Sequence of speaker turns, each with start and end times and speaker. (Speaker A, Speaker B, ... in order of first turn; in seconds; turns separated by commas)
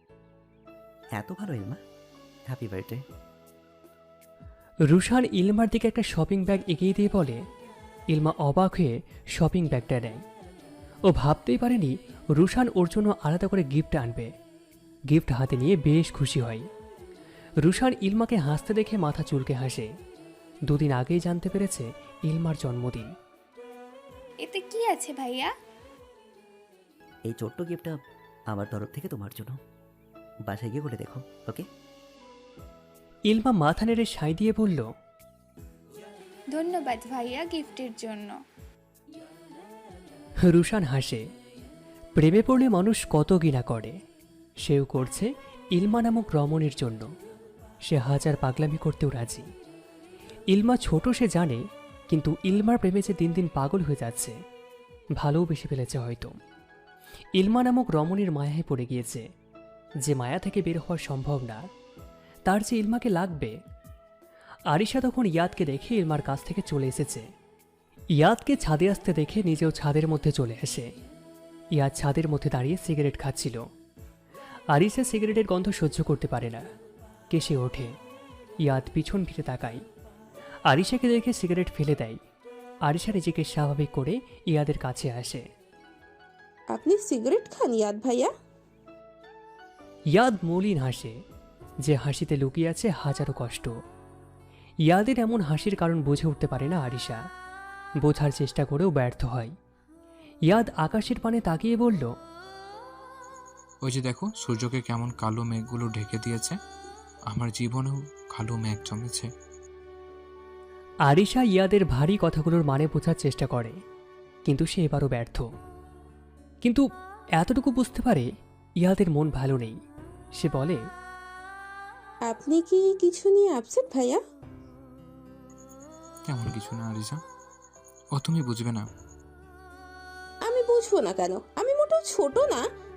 Speaker A: 1.1-1.8, Speaker A: 2.5-3.0, Speaker B: 4.9-7.4, Speaker B: 8.1-10.2, Speaker B: 11.1-14.3, Speaker B: 15.1-16.7, Speaker B: 17.6-19.9, Speaker B: 20.7-23.1, Speaker C: 24.4-25.5, Speaker A: 27.3-28.0, Speaker A: 28.5-29.6, Speaker A: 30.4-31.7, Speaker B: 33.3-34.9, Speaker C: 36.5-38.3, Speaker B: 40.5-41.2, Speaker B: 42.1-44.0, Speaker B: 44.6-47.1, Speaker B: 47.9-49.5, Speaker B: 50.5-54.4, Speaker B: 55.2-56.3, Speaker B: 57.4-59.3, Speaker B: 60.0-61.6, Speaker B: 62.5-63.6, Speaker B: 64.7-67.2, Speaker B: 68.2-70.9, Speaker B: 71.8-73.6, Speaker B: 74.7-76.6, Speaker B: 77.3-77.9, Speaker B: 78.6-79.8, Speaker B: 80.7-82.2, Speaker B: 82.9-85.4, Speaker D: 86.7-88.3, Speaker B: 90.1-91.2, Speaker B: 91.8-93.7, Speaker B: 94.9-97.2, Speaker B: 98.0-99.5, Speaker B: 100.5-102.1, Speaker E: 103.8-106.6, Speaker E: 107.3-109.3, Speaker B: 111.1-113.8, Speaker B: 114.5-115.5, Speaker B: 117.4-118.3, Speaker B: 118.8-119.8, Speaker B: 120.4-120.8, Speaker D: 122.3-124.2, Speaker E: 126.2-127.2, Speaker E: 128.1-128.9, Speaker D: 130.4-132.6